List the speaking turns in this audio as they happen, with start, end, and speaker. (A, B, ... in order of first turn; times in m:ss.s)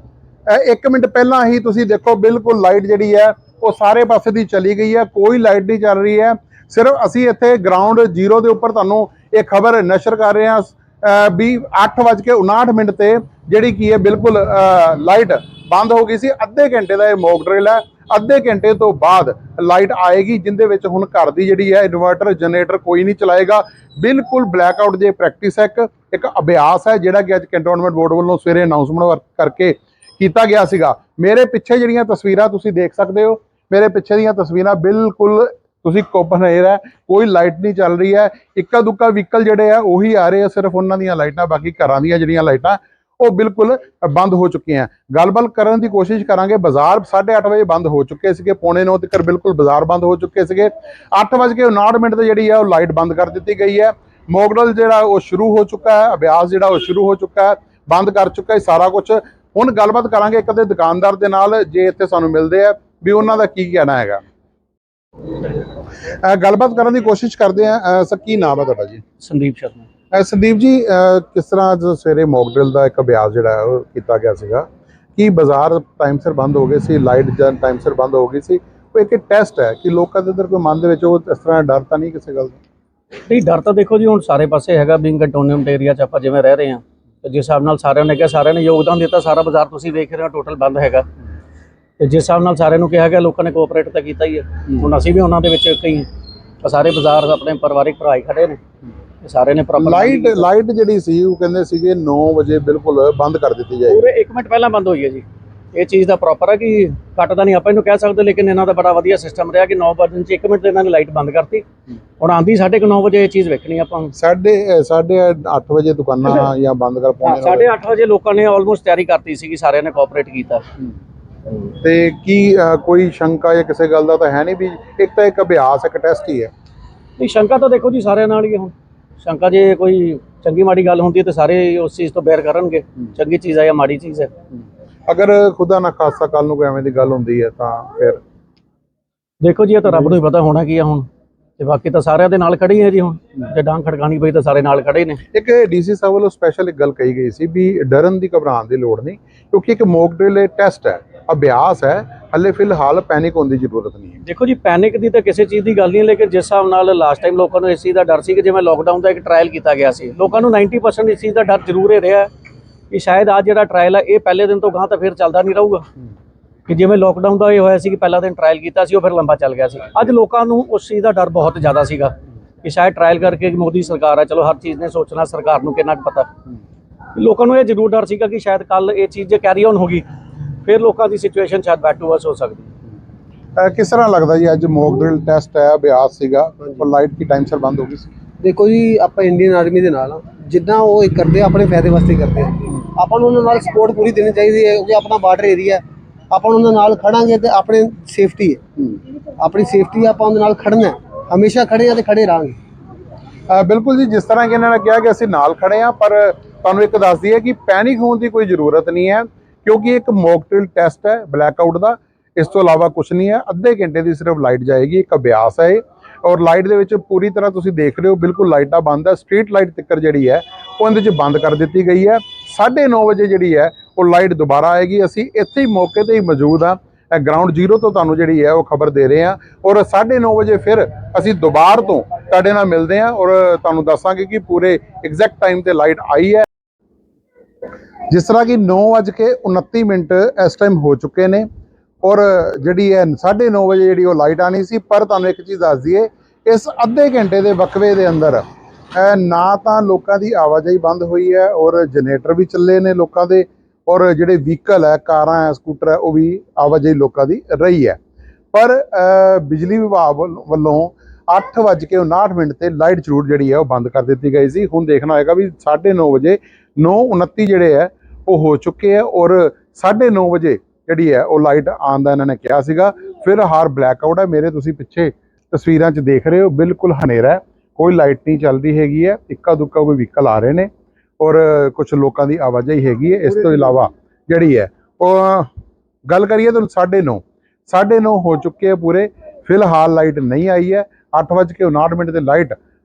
0:00.5-1:04.2 A
1:06.0-1:09.0 A
1:09.2-1:09.8 B
1:10.1-1:22.6 A
1:23.3-1:31.1 B
1:32.0-1:36.1 B
1:36.6-1:38.6 B
1:39.2-1:40.5 B
1:39.8-1:44.0 A
1:43.9-1:51.6 B
1:52.2-1:54.1 B
1:54.1-1:57.7 A
1:57.2-2:00.6 B
2:01.7-2:06.5 A
2:07.2-2:14.3 B
2:15.1-2:18.2 A
2:19.4-2:21.0 B
2:21.6-2:25.2 B
2:25.3-2:34.2 A
2:34.2-2:42.3 B
2:42.9-2:45.9 B
2:46.7-2:56.3 B
2:57.1-3:00.0 B
3:00.6-3:02.7 B
3:03.6-3:08.1 A
3:08.4-3:18.6 C
3:19.4-3:22.6 C
3:23.5-3:56.5 A
3:58.1-4:01.5 A
4:02.0-4:08.4 A
4:08.9-4:18.0 A
4:18.5-4:40.7 A
4:41.2-4:45.5 A
4:46.0-4:52.6 A